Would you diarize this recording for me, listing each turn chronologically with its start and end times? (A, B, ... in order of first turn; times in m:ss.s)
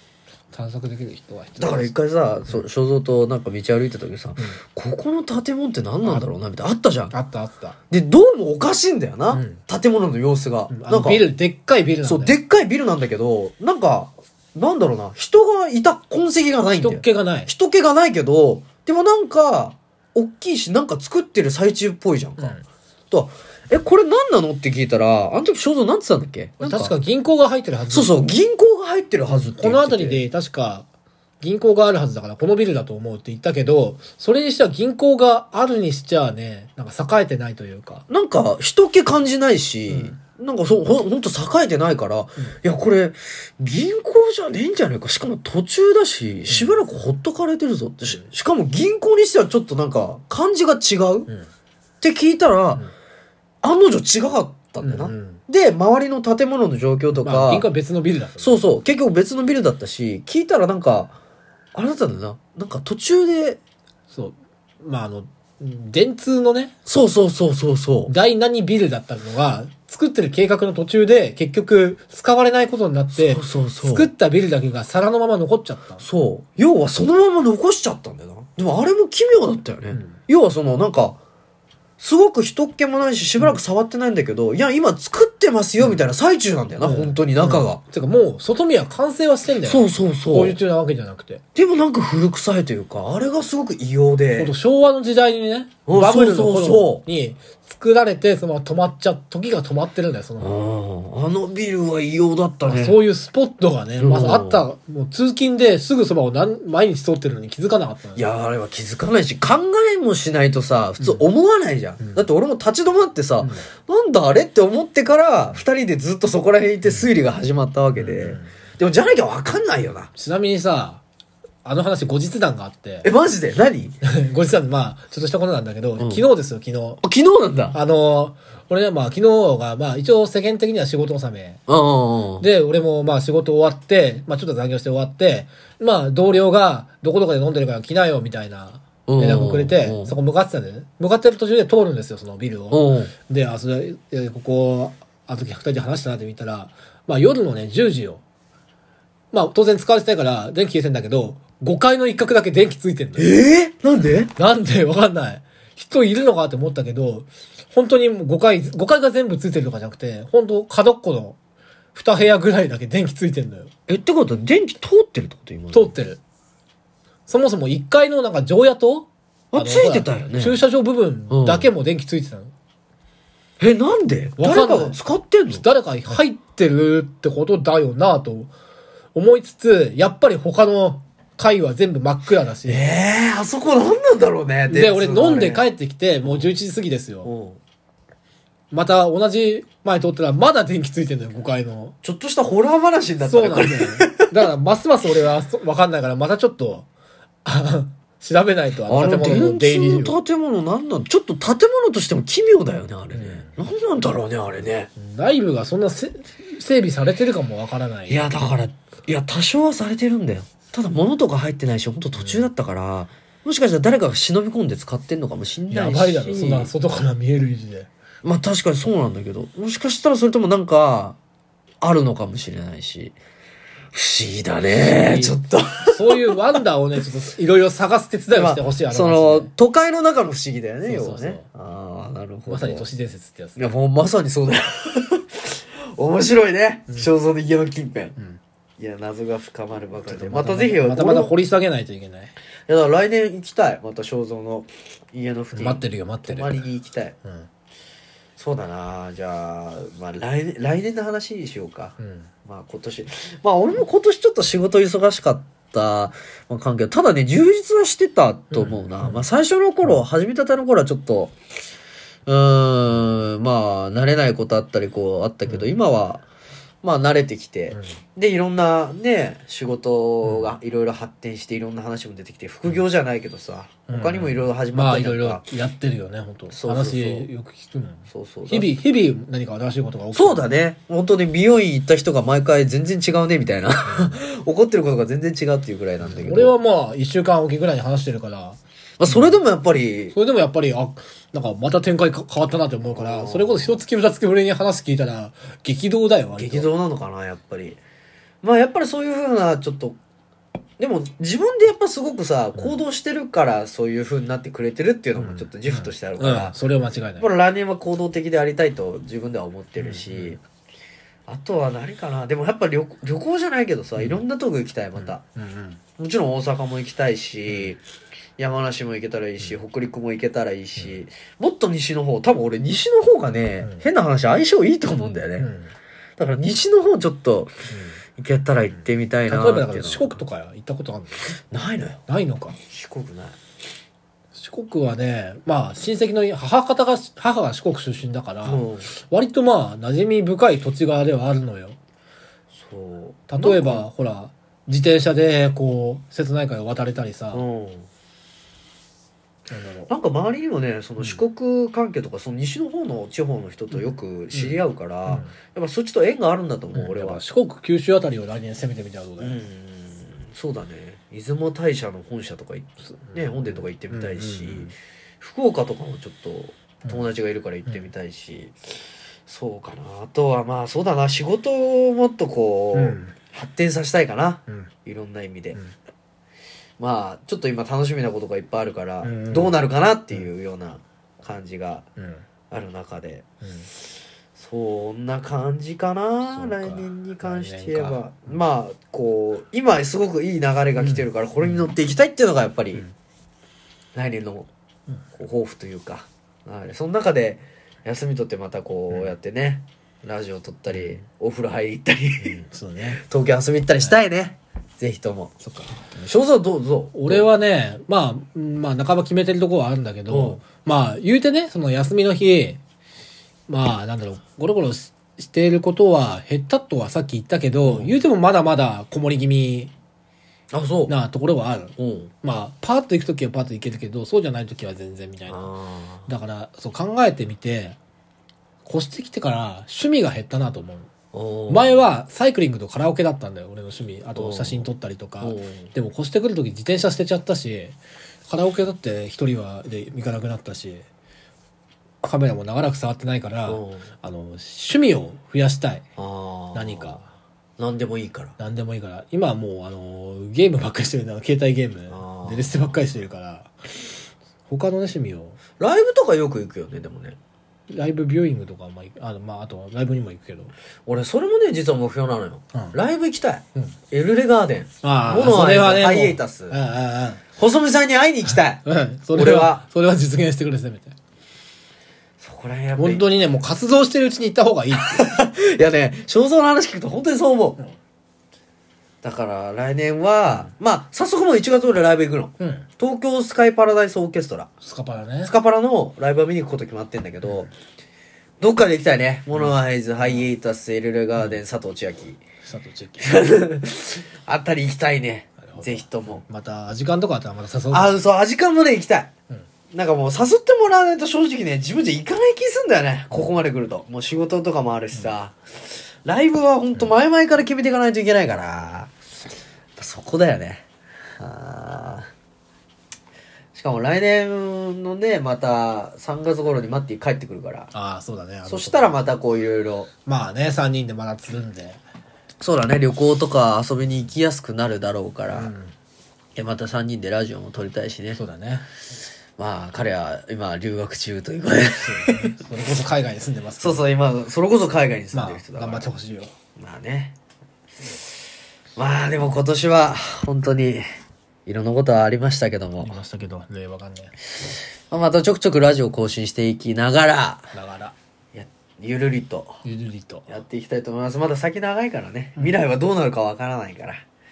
0:00.5-0:01.9 A
0:01.6-0:07.1 B
0:06.0-0:06.3 A
0:07.1-0:07.8 A
0:07.9-0:11.2 B
0:09.3-0:09.6 A
0:10.7-0:12.4 A
0:12.0-0:26.9 B
0:16.8-0:17.5 A
0:26.6-0:28.3 A
0:27.9-0:30.2 B
0:29.2-0:30.8 A
0:31.4-0:38.0 A
0:38.1-0:51.3 B
0:39.9-0:40.2 A
0:46.5-0:46.8 A
0:52.0-0:52.8 B
0:53.6-0:57.7 B
0:54.8-0:55.4 A
0:57.1-0:58.6 A
0:58.4-1:01.2 B
1:01.7-1:03.6 B
1:04.1-1:06.7 A
1:06.8-1:08.1 B
1:08.1-1:16.0 A
1:13.1-1:14.1 B
1:16.0-1:21.2 B
1:19.9-1:20.2 A
1:22.0-1:27.8 B
1:25.8-1:26.0 A
1:26.8-1:31.4 A
1:29.6-1:30.6 B
1:31.5-1:34.5 B
1:34.4-1:40.6 A
1:35.8-1:37.0 B
1:40.4-1:43.0 B
1:42.7-1:48.3 A
1:44.0-1:44.6 B
1:48.1-2:00.1 B
1:52.0-1:52.3 A
1:53.4-1:53.6 A
1:57.9-1:58.5 A
2:00.2-2:01.0 A
2:01.6-2:03.1 A
2:03.0-2:04.0 B
2:04.0-2:07.0 A
2:06.0-2:06.2 B
2:07.0-2:07.8 B
2:07.7-2:11.6 A
2:11.7-2:12.5 B
2:12.4-2:28.2 A
2:19.0-2:20.1 B
2:22.7-2:23.1 B
2:29.3-2:33.3 A
2:33.2-2:34.3 B
2:34.4-2:41.4 A
2:41.9-2:43.7 A
2:43.9-2:46.0 B
2:45.7-2:46.2 A
2:47.3-2:52.5 A
2:49.5-2:50.6 B
2:51.3-2:51.7 B
2:53.6-2:55.6 B
2:54.4-2:55.0 A
2:55.5-2:58.5 A
2:59.1-3:02.8 A
3:02.6-3:05.7 B
3:04.7-3:07.3 A
3:06.2-3:06.5 B
3:07.2-3:07.6 B
3:08.7-3:12.0 A
3:12.0-3:14.3 B
3:13.2-3:16.9 A
3:17.4-3:20.2 A
3:18.9-3:24.9 B
3:23.1-3:23.5 A
3:25.0-3:28.3 A
3:28.1-3:36.7 B
3:32.2-3:32.5 A
3:35.7-3:37.9 A
3:38.2-3:41.2 B
3:41.8-3:43.2 B
3:43.9-3:46.4 B
3:44.7-3:49.5 A
3:48.3-3:52.8 B
3:50.8-3:51.4 A
3:52.5-3:53.7 A
3:53.6-3:58.2 B
3:58.8-4:01.3 B
4:00.0-4:02.3 A
4:02.7-4:07.2 B
4:05.5-4:06.6 A
4:08.4-4:21.3 B
4:12.0-4:12.3 A
4:18.5-4:19.2 A
4:22.3-4:26.2 B
4:25.5-4:25.7 A
4:26.8-4:35.4 B
4:27.7-4:28.0 A
4:30.2-4:30.6 A
4:33.9-4:40.5 A
4:36.5-4:37.3 B
4:38.1-4:38.7 B
4:40.1-4:46.5 B
4:43.8-4:44.2 A
4:46.0-4:49.4 A
4:49.0-4:50.2 B
4:50.1-4:56.7 A
4:52.9-4:53.8 B
4:56.4-4:57.8 B
4:58.4-5:00.0 B
5:00.8-5:06.6 B
5:05.2-5:07.3 A
5:07.2-5:10.4 B
5:09.8-5:10.4 A
5:11.3-5:15.2 B
5:14.0-5:14.2 A
5:15.0-5:15.8 A
5:16.0-5:17.8 B
5:18.4-5:25.5 B
5:20.8-5:21.0 A
5:23.6-5:23.9 A
5:25.4-5:25.7 A
5:26.2-5:27.6 B
5:27.7-5:28.0 A
5:28.2-5:30.2 B
5:28.7-5:31.2 A
5:31.5-5:32.0 B
5:32.1-5:32.6 A
5:32.7-5:33.4 B
5:34.3-5:41.8 A
5:38.4-5:38.9 B
5:42.5-5:43.8 B
5:43.3-5:47.4 A
5:47.3-5:47.9 B
5:49.5-5:49.9 A
5:49.9-5:57.2 B
5:51.0-5:51.2 A
5:53.7-5:55.3 A
5:56.7-5:59.4 A
5:59.2-6:08.5 B
6:03.0-6:04.7 A
6:06.8-6:07.1 A
6:09.3-6:15.6 B
6:12.7-6:13.1 A
6:16.8-6:21.8 B
6:19.0-6:19.6 A
6:22.0-6:22.2 A
6:22.5-6:23.2 B
6:23.4-6:23.7 A
6:24.4-6:32.8 B
6:26.3-6:28.4 A
6:30.8-6:31.7 A
6:33.9-6:34.5 B
6:35.1-6:47.2 B
6:40.7-6:41.0 A
6:42.2-6:43.0 A
6:45.5-6:45.8 A
6:46.9-6:52.6 A
6:50.1-6:50.4 B
6:53.5-6:59.7 A
6:57.6-6:58.0 B
7:00.5-7:01.0 B
7:00.9-7:05.5 A
7:01.8-7:02.1 B
7:05.3-7:06.1 B
7:06.1-7:07.8 A
7:08.6-7:10.9 A
7:11.1-7:11.9 B
7:11.5-7:17.8 A
7:14.1-7:14.7 B
7:15.2-7:15.7 B
7:18.3-7:20.8 A
7:22.0-7:25.8 A
7:23.4-7:23.9 B
7:26.0-7:27.0 B
7:26.5-7:27.0 A
7:27.6-7:28.3 B
7:28.4-7:33.5 A
7:31.9-7:32.7 B
7:34.5-7:35.4 A
7:35.6-7:37.2 B
7:37.7-7:40.5 A
7:40.8-7:46.6 B
7:44.8-7:47.2 A
7:47.4-7:49.6 B
7:48.3-7:50.9 A
7:52.2-7:53.0 B
7:52.8-7:55.1 A
7:54.7-7:57.6 B
7:59.0-8:04.5 B
8:02.4-8:02.7 A
8:04.6-8:05.3 A
8:05.2-8:07.5 B
8:08.4-8:12.2 B
8:09.3-8:10.3 A
8:12.4-8:13.1 A
8:13.0-8:16.2 B
8:15.4-8:18.0 A
8:17.7-8:19.1 B
8:19.7-8:28.9 B
8:29.8-8:30.6 B
8:31.2-8:32.0 B
8:33.5-8:37.7 B
8:37.7-8:38.9 A
8:38.5-8:39.9 B
8:40.0-8:41.8 A
8:42.4-8:45.5 B
8:45.3-8:45.7 A
8:46.3-8:48.2 B
8:48.1-8:48.7 A
8:49.4-8:52.4 B
8:51.8-8:53.9 A
8:53.6-8:55.9 B
8:55.1-8:56.3 A
8:56.6-8:57.1 B
8:58.8-9:00.8 B
9:01.4-9:03.0 B
9:02.8-9:04.1 A
9:04.9-9:07.5 B
9:07.5-9:07.9 A
9:08.3-9:09.6 B
9:09.6-9:10.3 A
9:10.3-9:14.0 B